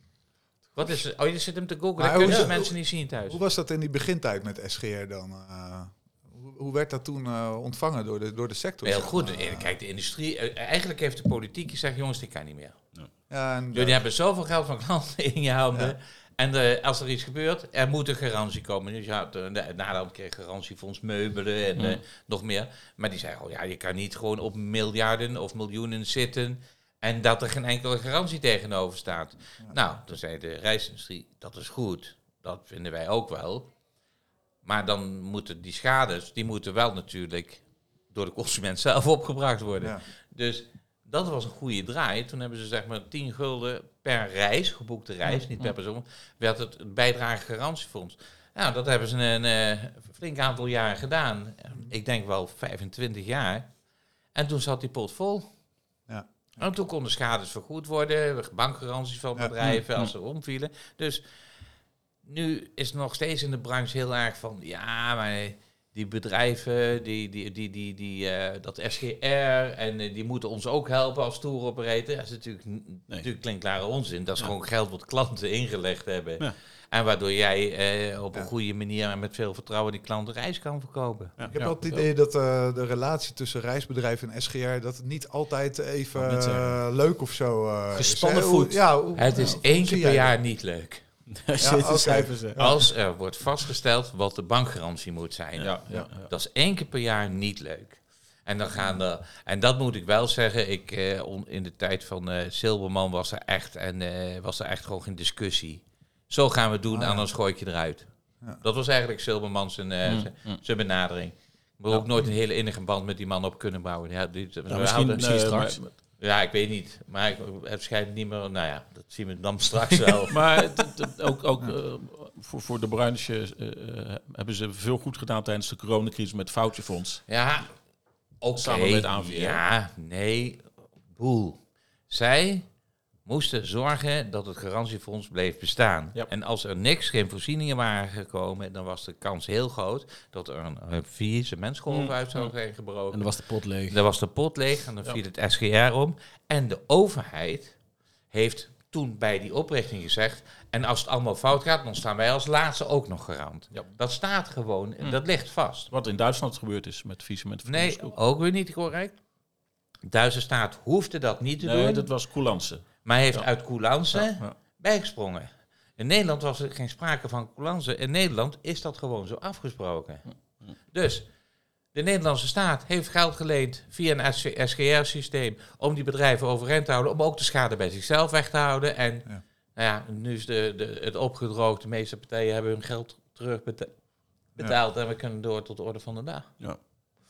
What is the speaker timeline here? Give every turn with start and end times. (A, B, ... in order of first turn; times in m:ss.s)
0:00.8-0:03.4 A
0:02.0-0:09.8 B
0:08.8-0:12.9 A
0:13.3-0:14.0 B
0:13.7-0:33.7 A
0:21.8-0:22.0 C
0:34.6-0:53.8 A
0:54.3-0:55.5 A
0:56.1-0:56.8 B
0:56.6-1:01.2 A
0:59.6-1:00.1 C
1:02.2-1:21.3 A
1:21.5-1:30.3 B
1:21.6-1:22.1 C
1:26.2-1:26.8 D
1:27.9-1:28.8 D
1:29.2-1:31.0 A
1:31.3-1:32.6 D
1:31.6-1:32.9 B
1:32.6-1:55.2 A
1:35.6-1:36.2 C
1:35.9-1:36.3 D
1:46.9-1:47.3 B
1:50.0-1:50.6 C
1:54.7-1:55.8 D
1:55.2-1:56.0 C
1:56.2-2:00.4 A
2:00.3-2:07.2 C
2:07.3-2:07.8 A
2:08.4-2:12.7 A
2:08.6-2:09.6 C
2:13.2-2:23.3 A
2:21.9-2:22.5 C
2:23.1-2:24.0 D
2:23.9-2:27.8 A
2:28.3-2:35.9 A
2:35.9-2:38.1 C
2:37.7-2:39.2 A
2:40.1-2:42.1 A
2:41.6-2:43.5 C
2:43.0-2:50.3 A
2:44.1-2:44.6 C
2:50.8-2:51.3 A
2:51.9-3:04.0 A
3:04.6-3:06.5 A